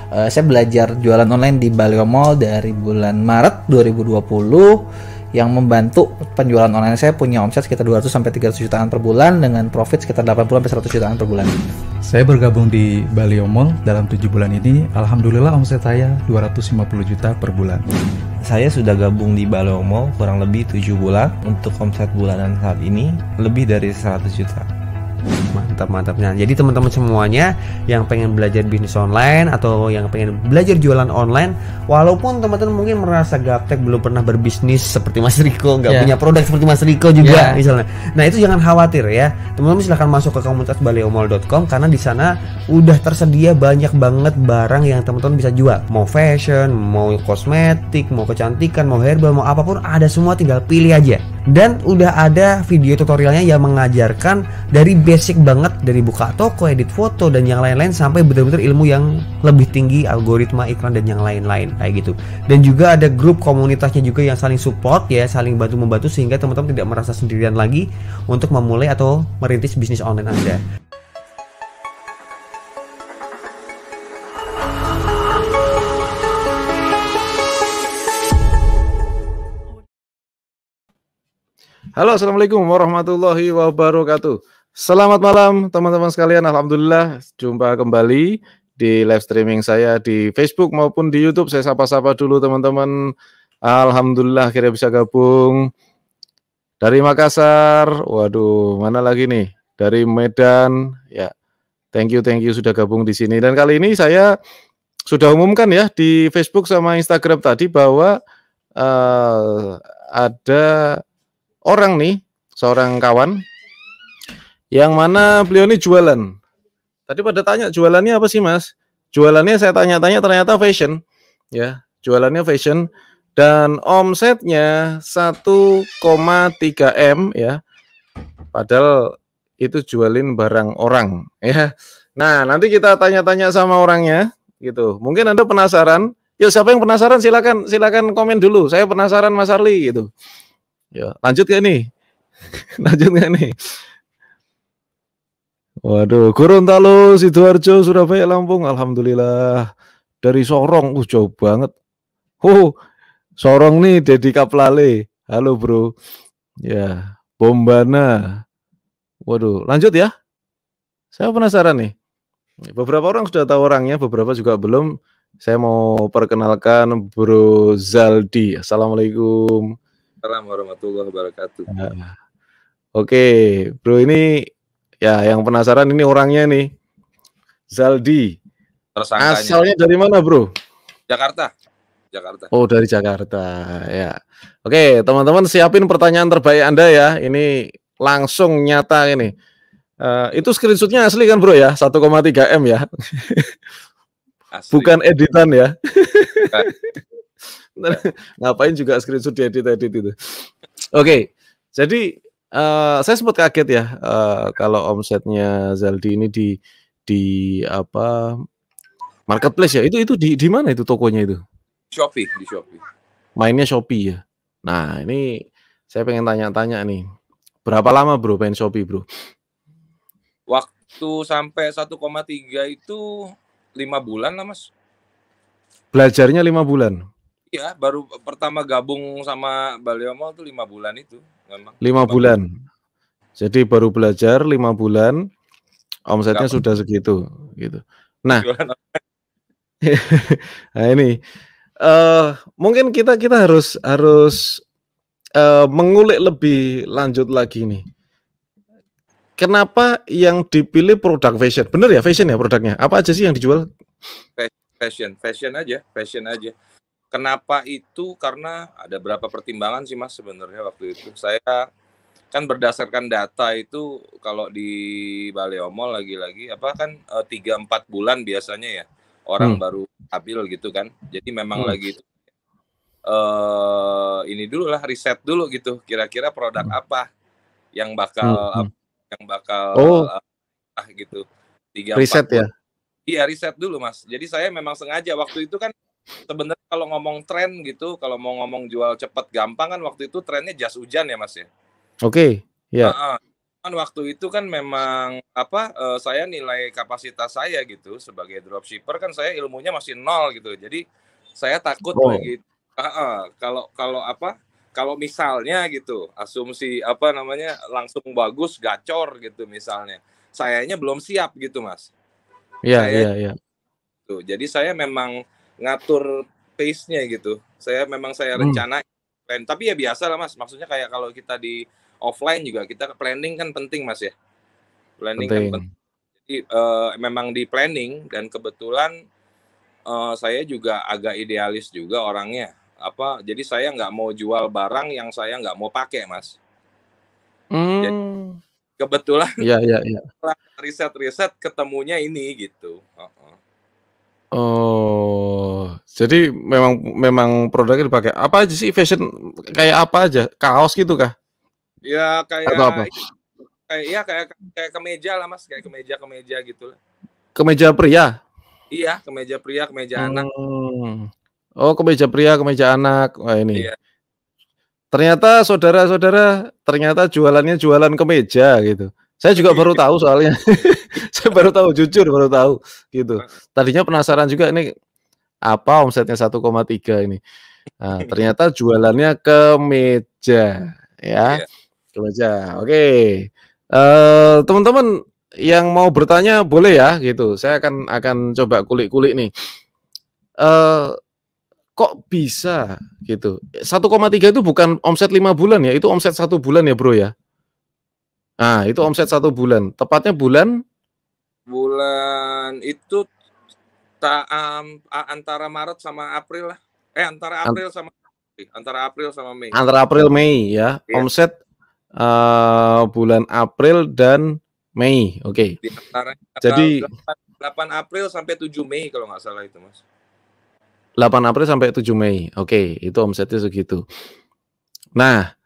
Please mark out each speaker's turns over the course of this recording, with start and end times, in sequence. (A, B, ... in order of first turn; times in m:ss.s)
0:00.1-0:11.6 A
0:12.0-0:17.8 B
0:18.4-0:24.7 C
0:25.5-1:10.6 D
1:22.0-1:32.9 E
1:33.7-1:35.7 E
1:36.8-1:41.3 E
1:41.9-1:44.3 E
1:45.1-1:48.1 E
1:48.8-1:51.0 E
1:51.7-1:53.4 E
1:54.7-1:56.3 E
1:57.1-2:01.0 E
2:01.5-2:07.6 E
2:08.5-2:08.9 E
2:09.6-2:20.1 E
2:21.0-2:21.8 E
2:22.8-2:23.5 E
2:25.9-2:29.7 E
2:30.2-2:31.7 E
2:32.4-2:32.7 E
2:33.4-2:35.9 E
2:36.6-2:38.1 E
2:39.3-2:40.1 E
2:41.2-2:41.9 E
2:42.7-2:44.9 E
2:45.4-2:49.6 E
2:50.2-2:51.7 F
2:51.7-2:52.1 E
2:53.0-2:54.3 E
2:55.0-2:56.7 E
2:57.8-2:58.3 E
2:59.0-2:59.6 F
2:59.2-3:00.5 E
3:01.1-3:01.5 F
3:02.1-3:02.5 F
3:02.5-3:07.5 E
3:08.0-3:09.3 E
3:10.0-3:13.5 E
3:14.5-3:15.0 F
3:14.7-3:16.7 E
3:17.8-3:26.6 E
3:27.1-3:28.3 E
3:29.3-3:31.4 E
3:31.9-3:32.8 F
3:33.4-3:35.3 E
3:35.9-3:37.0 E
3:37.7-3:39.0 E
3:40.5-3:43.0 F
3:43.8-3:44.7 F
3:45.9-3:47.0 E
3:47.5-3:52.3 F
3:51.8-3:52.5 E
3:53.4-3:55.2 E
3:56.1-3:58.5 E
3:58.3-3:59.0 F
3:59.9-4:01.2 E
4:01.8-4:04.6 E
4:05.4-4:07.8 E
4:09.4-4:13.6 E
4:14.4-4:16.5 F
4:17.1-4:21.6 F
4:22.3-4:32.1 F
4:33.1-4:37.1 F
4:37.8-4:40.2 F
4:38.2-4:38.7 E
4:39.8-4:40.1 E
4:40.8-4:42.4 F
4:42.0-4:42.5 E
4:43.1-4:45.7 F
4:46.3-4:51.5 F
4:52.0-4:52.9 E
4:52.8-5:00.8 F
5:01.4-5:11.9 F
5:01.9-5:02.3 E
5:12.6-5:13.3 E
5:12.8-5:13.1 F
5:14.1-5:24.1 F
5:18.4-5:18.6 E
5:25.0-5:25.6 F
5:25.2-5:25.6 E
5:26.2-5:28.9 F
5:29.9-5:36.4 F
5:37.5-5:38.4 E
5:38.8-5:39.4 F
5:39.4-5:40.0 E
5:40.2-5:43.4 F
5:44.3-5:49.0 E
5:49.5-5:51.1 E
5:51.8-5:52.9 F
5:52.5-5:52.9 E
5:53.7-5:56.8 F
5:57.4-5:58.1 E
5:58.7-6:00.2 F
6:00.0-6:01.1 E
6:01.6-6:03.7 E
6:04.9-6:14.7 E
6:09.4-6:09.8 F
6:15.5-6:17.2 E
6:17.8-6:21.4 E
6:22.0-6:24.9 E
6:25.4-6:29.3 E
6:30.4-6:30.9 E
6:31.8-6:37.1 E
6:38.4-6:40.5 E
6:41.5-6:43.0 F
6:44.0-6:49.5 F
6:49.5-6:51.3 E
6:52.0-6:55.6 E
6:55.6-6:59.8 F
6:56.4-6:56.8 E
7:01.0-7:03.8 E
7:05.0-7:05.3 E